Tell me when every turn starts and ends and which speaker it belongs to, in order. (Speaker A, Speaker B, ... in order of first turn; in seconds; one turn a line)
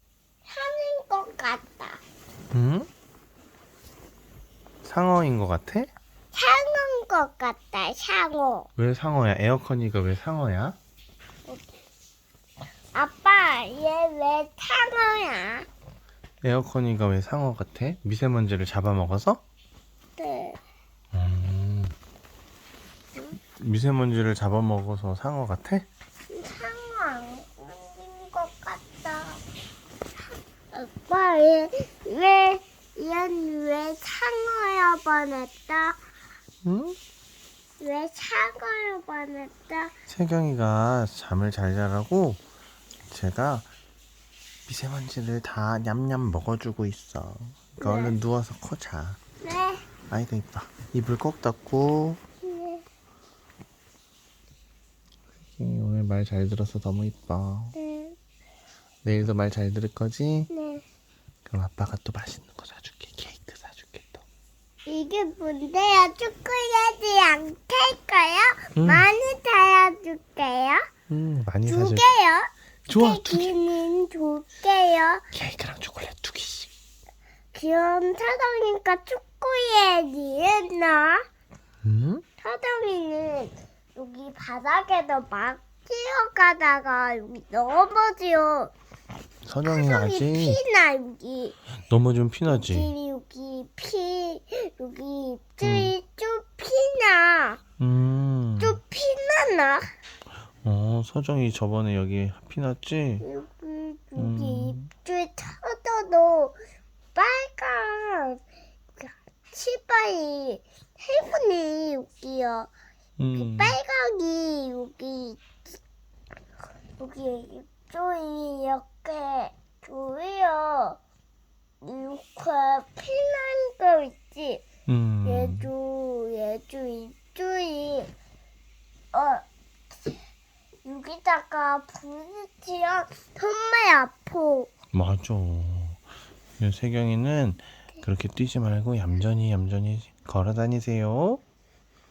Speaker A: 0.5-2.0
Speaker B: 2.5-2.9
Speaker B: 4.8-5.9
Speaker A: 6.3-8.7
Speaker B: 8.8-10.8
Speaker A: 12.9-15.7
Speaker B: 16.4-19.4
Speaker A: 20.2-20.6
Speaker B: 21.1-21.9
Speaker B: 23.6-25.9
Speaker A: 26.3-29.4
Speaker A: 30.2-36.0
Speaker B: 36.6-37.0
Speaker A: 37.8-39.9
Speaker B: 40.1-42.4
Speaker B: 43.1-43.7
Speaker B: 44.7-49.2
Speaker A: 47.8-48.1
Speaker A: 49.4-49.9
Speaker B: 50.1-52.2
Speaker A: 52.4-52.8
Speaker B: 55.6-57.8
Speaker A: 57.7-58.2
Speaker B: 59.0-60.5
Speaker A: 60.5-60.8
Speaker B: 61.5-64.2
Speaker A: 64.9-70.9
Speaker B: 68.8-69.1
Speaker B: 71.1-72.0
Speaker A: 71.7-75.2
Speaker B: 72.9-73.5
Speaker B: 75.3-76.7
Speaker A: 77.5-81.2
Speaker B: 81.8-82.2
Speaker A: 82.4-88.7
Speaker B: 89.4-90.6
Speaker A: 89.7-91.5
Speaker B: 91.9-92.9
Speaker A: 92.5-97.6
Speaker B: 95.6-95.9
Speaker B: 97.8-98.8
Speaker A: 98.6-99.9
Speaker B: 100.6-103.2
Speaker A: 103.2-106.5
Speaker B: 104.2-104.9
Speaker A: 107.1-108.4
Speaker A: 109.0-112.7
Speaker B: 113.2-113.8
Speaker A: 113.3-115.5
Speaker A: 117.0-121.0
Speaker A: 121.8-124.6
Speaker B: 124.9-125.7
Speaker A: 125.2-128.1
Speaker A: 129.1-129.4
Speaker A: 130.8-134.7
Speaker B: 134.9-136.0
Speaker B: 136.6-141.4